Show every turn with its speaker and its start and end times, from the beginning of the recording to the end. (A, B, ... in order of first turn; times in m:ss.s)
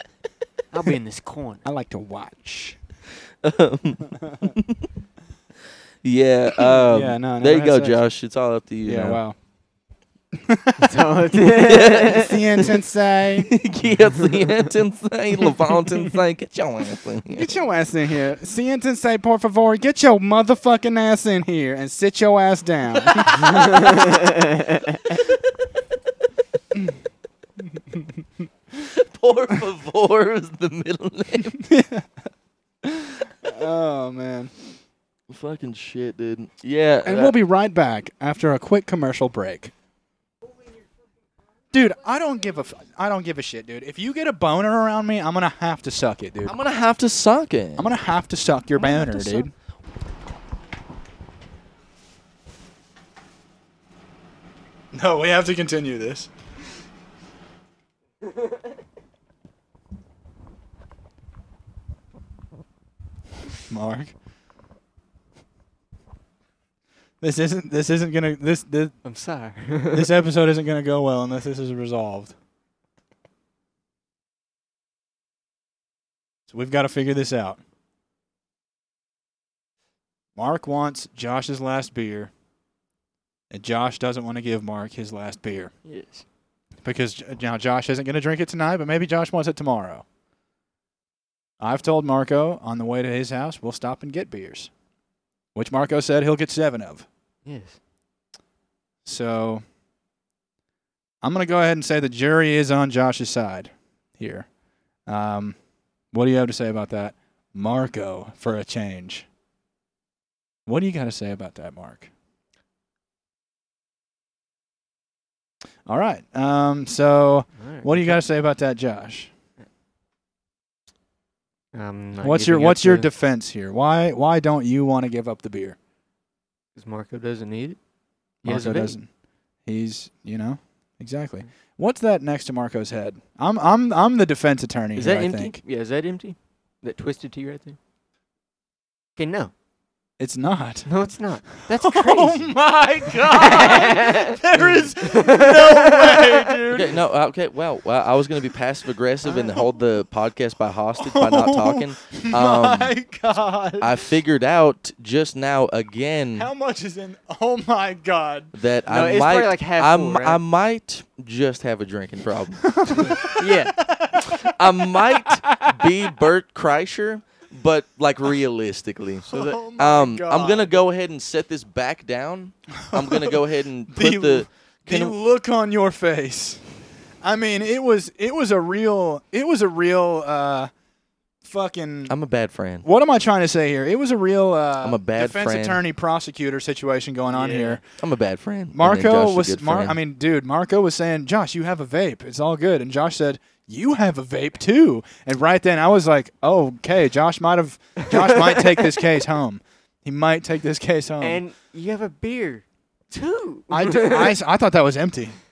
0:00.7-0:01.6 A
0:01.6-0:02.8 B
0:03.4-0:04.8 C
0:06.0-0:09.2 C
0:06.7-0:08.0 B
0:08.8-0:09.4 B
0:10.3-0:11.0 B
0:10.8-0:12.4 A
0:11.5-0:12.3 C
0:12.1-0:13.5 B
0:13.4-0:17.5 C
0:17.3-0:23.8 B
0:23.1-0:23.5 C
0:28.8-0:31.6 C
0:31.6-0:32.1 B
0:32.8-0:34.5 B
0:35.3-0:37.4 C
0:37.0-0:39.7 B
0:41.7-0:46.6 B
0:46.4-0:47.9 C
0:47.8-0:49.5 B
0:48.8-0:49.4 A
0:54.9-0:56.3 B
1:03.7-1:04.1 B
1:07.2-1:09.0 B
1:09.0-1:10.1 A
1:09.9-1:12.3 B
1:16.5-1:17.6 B
1:20.4-1:22.3 B
1:23.5-1:25.7 B
1:25.8-1:26.2 A
1:26.8-1:30.0 B
1:31.6-1:34.7 B
1:35.5-1:37.0 B
1:37.4-1:37.8 A
1:39.0-1:39.6 B
1:41.2-1:44.5 B
1:45.0-1:45.6 B
1:46.1-1:49.3 B
1:50.6-1:52.1 B
1:55.8-1:59.3 B
1:57.6-1:58.2 A
2:01.7-2:03.1 A
2:02.2-2:05.8 B
2:06.8-2:07.8 A
2:08.4-2:09.0 A
2:08.4-2:09.1 B
2:09.6-2:15.6 B
2:15.0-2:17.8 A
2:19.2-2:19.5 A
2:20.2-2:20.9 B
2:20.9-2:22.5 A
2:21.7-2:27.0 B
2:23.3-2:26.2 A
2:26.7-2:32.9 C
2:29.3-2:29.6 B
2:31.0-2:33.9 B
2:33.8-2:36.5 C
2:36.3-2:38.5 B
2:38.5-2:42.8 C
2:38.9-2:40.4 A
2:42.7-2:44.5 B
2:43.2-2:43.8 A
2:44.4-2:55.2 C
2:49.3-2:50.8 B
2:49.3-2:49.6 A
2:52.8-2:56.6 B
2:57.2-3:00.7 B
3:01.4-3:02.1 B
3:02.1-3:02.9 C
3:02.8-3:07.8 B
3:04.8-3:05.8 C
3:07.3-3:07.8 A
3:08.0-3:10.0 C
3:08.7-3:21.4 B
3:21.2-3:24.4 A
3:23.7-3:25.4 B